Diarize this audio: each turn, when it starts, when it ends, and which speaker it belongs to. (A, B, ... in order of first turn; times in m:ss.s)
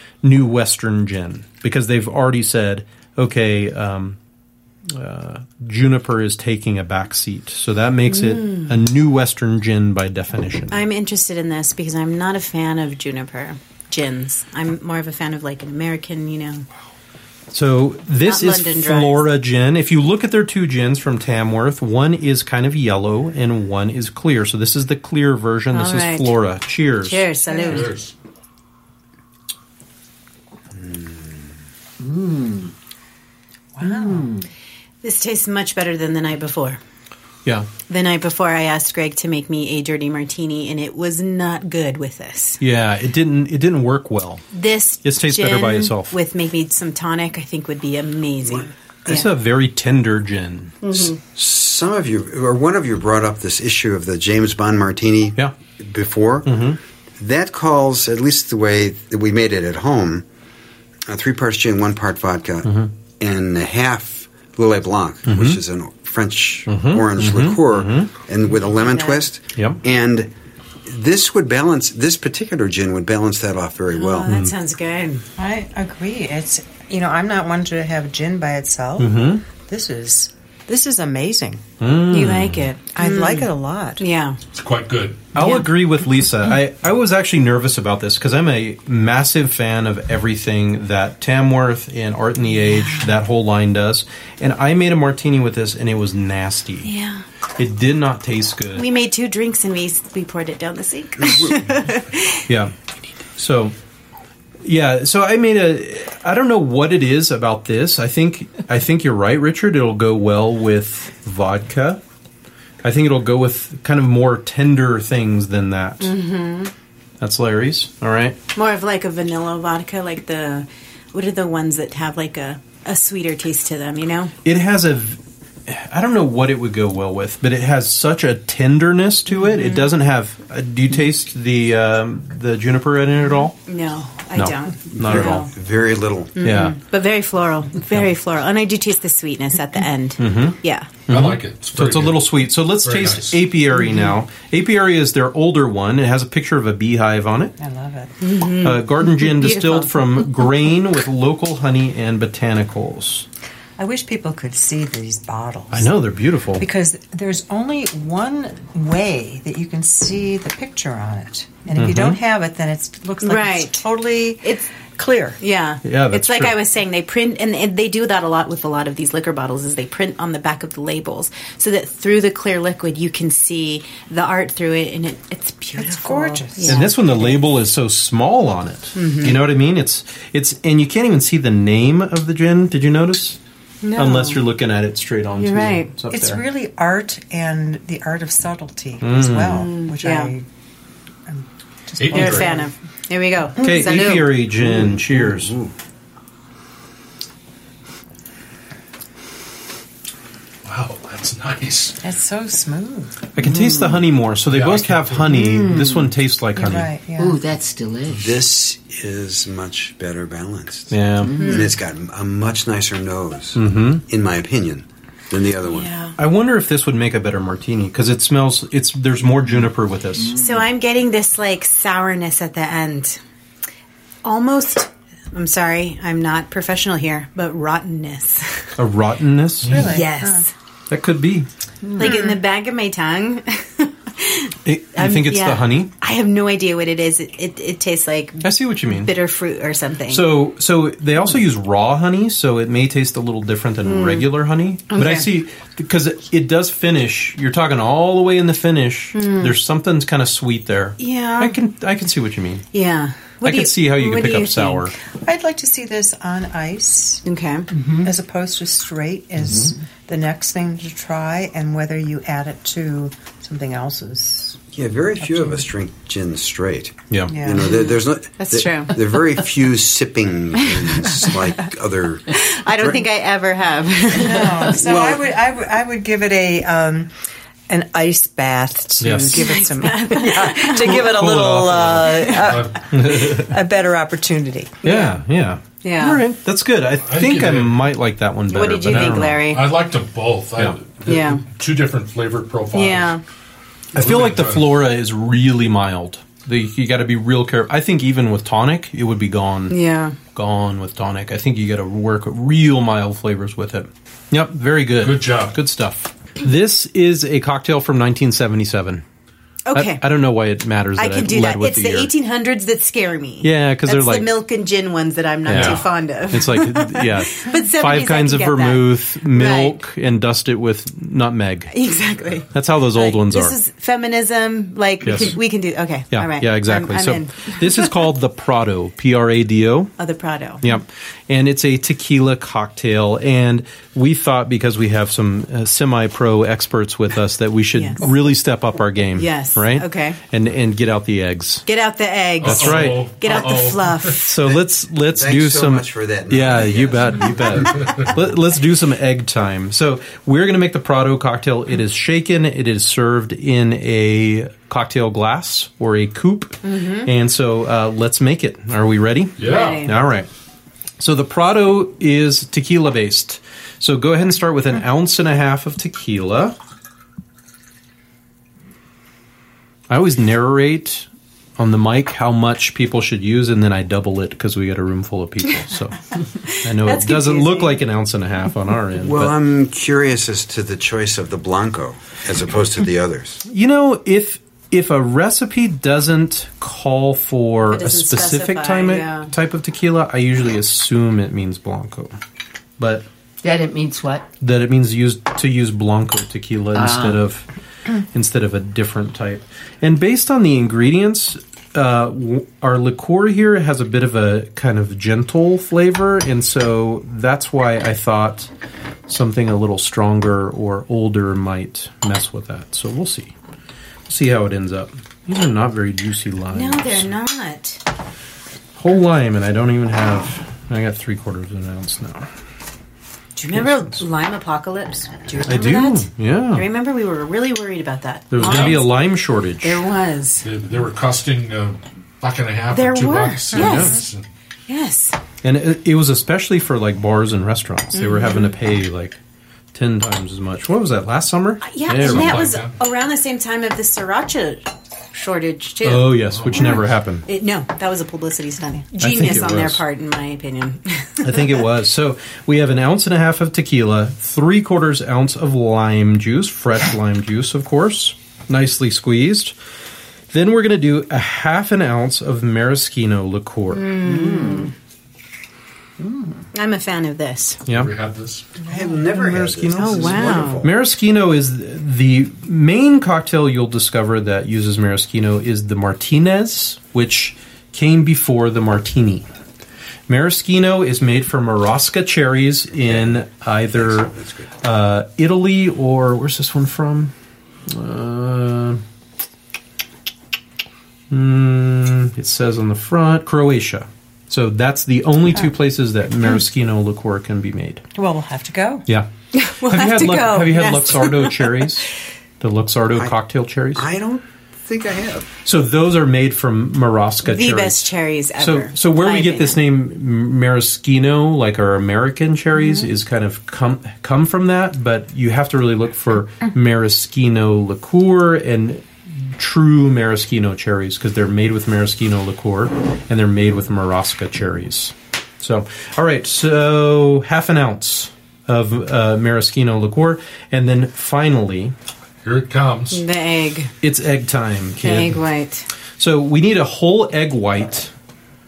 0:00.2-0:04.2 A
0:04.9-0:10.8 A
0:08.1-0:08.7 B
0:10.7-0:16.7 B
0:17.5-0:27.7 A
0:18.2-0:19.2 B
0:25.7-0:26.3 B
0:27.0-0:27.9 B
0:27.6-0:28.1 C
0:30.8-0:31.5 D
0:32.0-0:32.7 E
0:33.8-0:34.4 F
0:33.8-0:34.5 E
0:35.0-0:36.8 B
0:37.9-0:42.6 B
0:42.6-0:44.4 A
0:44.5-0:49.3 B
0:45.0-0:46.2 A
0:49.1-0:51.1 A
0:51.2-0:56.6 D
0:56.4-0:56.8 A
0:57.2-1:00.2 D
1:01.1-1:10.3 D
1:02.6-1:02.9 A
1:05.3-1:05.6 A
1:06.7-1:08.1 A
1:10.9-1:14.3 D
1:13.9-1:15.3 B
1:14.3-1:14.5 A
1:15.4-1:21.6 F
1:19.0-1:19.4 A
1:21.8-1:22.7 A
1:22.1-1:24.4 B
1:23.0-1:24.0 F
1:24.5-1:25.3 C
1:25.3-1:36.9 A
1:25.4-1:25.6 B
1:36.8-1:37.2 B
1:37.6-1:38.9 A
1:38.8-1:42.4 B
1:41.2-1:41.6 D
1:42.5-1:42.7 A
1:43.4-1:43.7 A
1:44.6-1:52.0 A
1:52.8-1:56.1 A
1:56.0-1:56.7 B
1:57.2-1:58.4 A
1:58.6-2:04.3 B
2:04.4-2:13.6 A
2:09.5-2:09.9 B
2:13.7-2:15.5 B
2:14.4-2:15.5 A
2:14.9-2:16.4 D
2:16.4-2:20.9 B
2:16.4-2:16.8 A
2:20.2-2:27.6 A
2:21.1-2:23.4 C
2:27.6-2:28.1 F
2:28.2-2:30.0 B
2:28.6-2:33.3 A
2:33.8-2:35.9 F
2:35.7-2:36.7 A
2:36.6-2:45.4 F
2:41.8-2:42.2 A
2:43.2-2:43.8 B
2:45.4-2:57.4 B
2:45.8-2:46.6 A
2:55.8-2:56.9 F
2:56.6-3:03.4 A
2:59.0-2:59.4 B
3:03.8-3:04.4 B
3:04.0-3:06.4 A
3:05.3-3:05.9 B
3:06.1-3:10.4 F
3:09.0-3:09.7 A
3:09.5-3:10.3 B
3:11.3-3:12.7 F
3:12.0-3:12.6 C
3:12.1-3:14.4 B
3:13.6-3:15.5 A
3:14.5-3:15.7 D
3:20.6-3:22.0 C
3:22.0-3:23.2 F
3:23.4-3:26.9 A
3:23.4-3:24.0 E
3:24.5-3:25.3 C
3:25.3-3:26.1 E
3:26.6-3:27.4 F
3:27.2-3:28.4 E
3:28.1-3:36.0 D
3:30.9-3:31.4 A
3:31.2-3:31.6 E
3:31.4-3:31.7 B
3:33.6-3:34.0 A
3:35.6-3:36.2 B
3:36.2-3:40.3 A
3:40.4-3:43.2 B
3:44.2-3:48.7 B
3:48.8-3:49.8 A
3:49.6-3:50.0 C
3:49.7-3:50.5 F
3:49.7-3:50.5 B
3:50.9-3:51.5 A
3:52.0-4:00.3 B
3:54.7-3:55.9 A
3:58.4-3:59.1 A
4:00.1-4:12.7 A
4:03.8-4:04.3 B
4:04.9-4:05.3 B
4:09.1-4:09.5 B
4:11.0-4:11.6 B
4:12.7-4:14.9 B
4:13.4-4:14.9 A
4:15.2-4:17.2 F
4:17.2-4:17.7 B
4:17.9-4:24.6 F
4:19.4-4:19.7 A
4:24.7-4:33.0 D
4:25.2-4:25.6 F
4:27.1-4:27.4 A
4:27.3-4:27.7 F
4:27.6-4:29.1 B
4:30.6-4:31.3 B
4:32.3-4:34.8 B
4:34.2-4:37.1 F
4:34.8-4:35.2 D
4:37.7-4:44.8 F
4:39.0-4:39.5 C
4:39.3-4:41.2 B
4:40.8-4:42.3 A
4:41.6-4:42.9 C
4:42.9-4:43.6 A
4:44.8-4:45.2 B
4:44.8-4:49.5 A
4:45.8-4:46.2 B
4:47.0-4:47.9 C
4:48.5-4:49.6 B
4:48.9-4:53.2 C
4:51.1-4:51.4 B
4:52.7-4:53.2 B
4:53.9-4:54.7 C
4:53.9-5:09.0 A
4:59.7-5:00.2 B
5:05.0-5:05.6 C
5:09.7-5:10.0 B
5:09.7-5:12.1 A
5:11.0-5:19.8 B
5:13.4-5:14.3 A
5:15.5-5:21.7 A
5:15.5-5:15.8 C
5:21.7-5:28.0 B
5:22.4-5:23.6 A
5:25.0-5:25.4 A
5:26.1-5:29.9 A
5:30.0-5:30.7 B
5:30.6-5:41.7 A
5:37.7-5:38.0 B
5:39.2-5:40.2 B
5:41.7-5:44.4 B
5:42.4-5:44.2 C
5:42.4-5:43.6 A
5:44.2-6:00.3 A
5:44.4-5:48.0 D
5:47.7-5:48.0 C
5:56.6-5:57.1 B
5:59.4-5:59.8 C
5:59.4-6:00.0 B
6:01.0-6:06.6 A
6:09.9-6:16.0 A
6:16.5-6:17.8 B
6:16.5-6:19.4 A
6:19.0-6:23.4 D
6:23.4-6:32.2 A
6:27.7-6:29.3 B
6:32.8-6:33.1 A
6:33.4-6:34.3 E
6:34.4-6:37.5 A
6:36.8-6:37.2 E
6:38.0-6:48.5 A
6:49.1-6:53.3 A
6:54.1-6:57.1 A
6:56.5-6:57.8 B
6:58.8-7:02.3 A
7:03.4-7:09.0 B
7:03.5-7:04.0 A
7:05.4-7:06.7 A
7:08.3-7:09.8 A
7:08.4-7:08.8 C
7:09.6-7:10.4 B
7:10.4-7:14.3 C
7:12.7-7:14.0 B
7:13.5-7:14.1 A
7:14.7-7:15.2 B
7:15.4-7:19.2 A
7:18.0-7:18.5 B
7:19.7-7:22.5 A
7:21.6-7:31.4 B
7:22.0-7:22.7 C
7:25.8-7:27.2 A
7:26.3-7:26.8 C
7:29.0-7:29.8 A
7:31.2-7:39.6 A
7:40.3-7:43.9 A
7:43.7-7:44.7 B
7:44.0-7:44.7 E
7:46.0-7:46.4 E
7:46.5-7:47.6 B
7:47.7-7:47.9 A
7:47.7-7:48.4 C
7:48.7-7:50.8 D
7:48.7-7:48.9 F
7:49.0-7:59.3 A
7:49.7-7:50.6 B
8:00.1-8:07.1 A
8:02.9-8:03.2 D
8:03.8-8:04.5 D
8:07.7-8:08.8 A
8:11.1-8:17.8 A
8:18.0-8:18.9 F
8:19.3-8:21.7 B
8:19.6-8:21.9 A
8:22.4-8:23.9 A
8:23.8-8:25.3 D
8:25.4-8:51.8 A
8:27.2-8:29.6 B
8:52.2-8:53.0 C
8:52.9-8:53.7 B
8:53.8-8:55.2 A
8:54.8-8:55.7 B
8:56.0-8:57.9 A